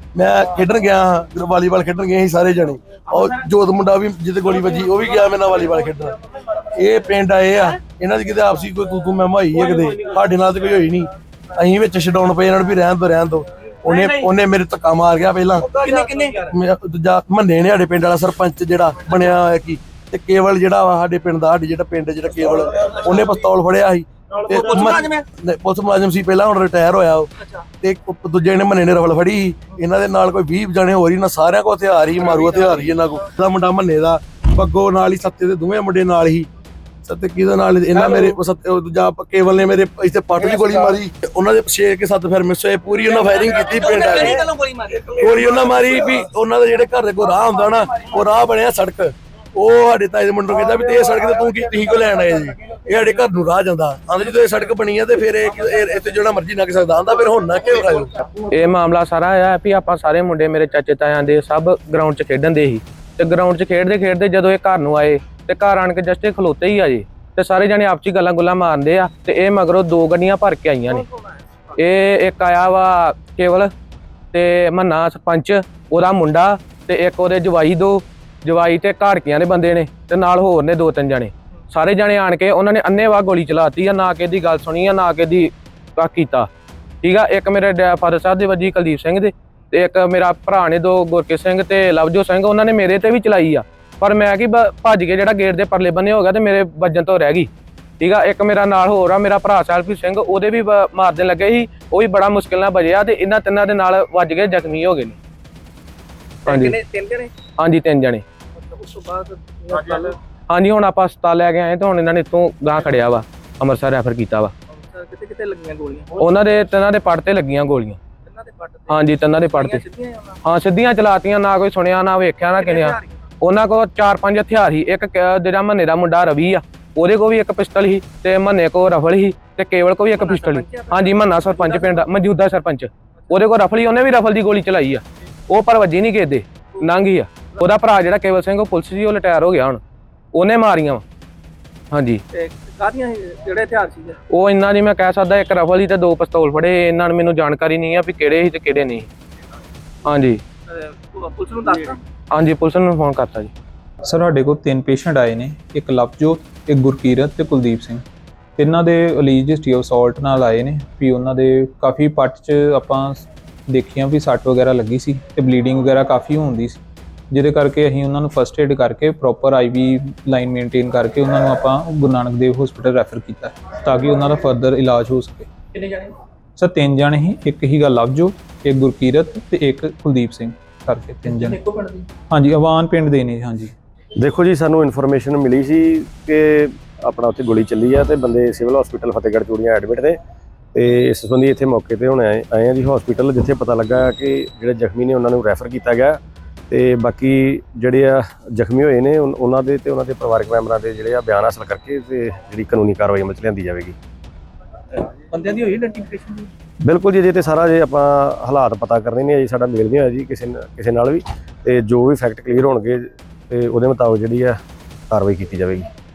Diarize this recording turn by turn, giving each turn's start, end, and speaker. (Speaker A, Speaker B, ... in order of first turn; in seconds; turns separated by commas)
Speaker A: 0.1-6.2, Speaker A: 6.7-27.3, Speaker B: 15.8-16.4, Speaker B: 24.8-25.1, Speaker A: 27.8-36.5, Speaker A: 37.0-44.5, Speaker B: 44.2-44.7, Speaker A: 45.0-58.1, Speaker C: 58.5-71.0, Speaker C: 71.8-73.7, Speaker C: 74.3-86.5, Speaker C: 87.0-97.5, Speaker C: 98.0-105.2, Speaker C: 106.5-106.8, Speaker B: 106.5-107.3, Speaker C: 107.6-108.2, Speaker B: 108.6-110.2, Speaker C: 110.5-114.5, Speaker B: 114.7-116.2, Speaker C: 116.2-118.0, Speaker B: 118.2-120.4, Speaker C: 118.9-119.8, Speaker C: 120.4-139.8, Speaker B: 122.6-123.2, Speaker B: 130.2-132.1, Speaker C: 140.3-141.0, Speaker C: 141.9-142.2, Speaker B: 142.3-144.2, Speaker C: 144.3-149.1, Speaker C: 150.0-150.4, Speaker B: 150.8-152.0, Speaker C: 152.3-153.5, Speaker D: 154.0-158.0, Speaker D: 158.6-166.8, Speaker D: 167.3-175.5, Speaker B: 175.8-176.1, Speaker D: 176.6-181.6, Speaker B: 181.3-182.1, Speaker D: 182.3-183.7, Speaker E: 184.2-190.2, Speaker E: 190.7-203.9, Speaker B: 205.2-206.5, Speaker E: 206.8-214.6, Speaker E: 215.1-215.8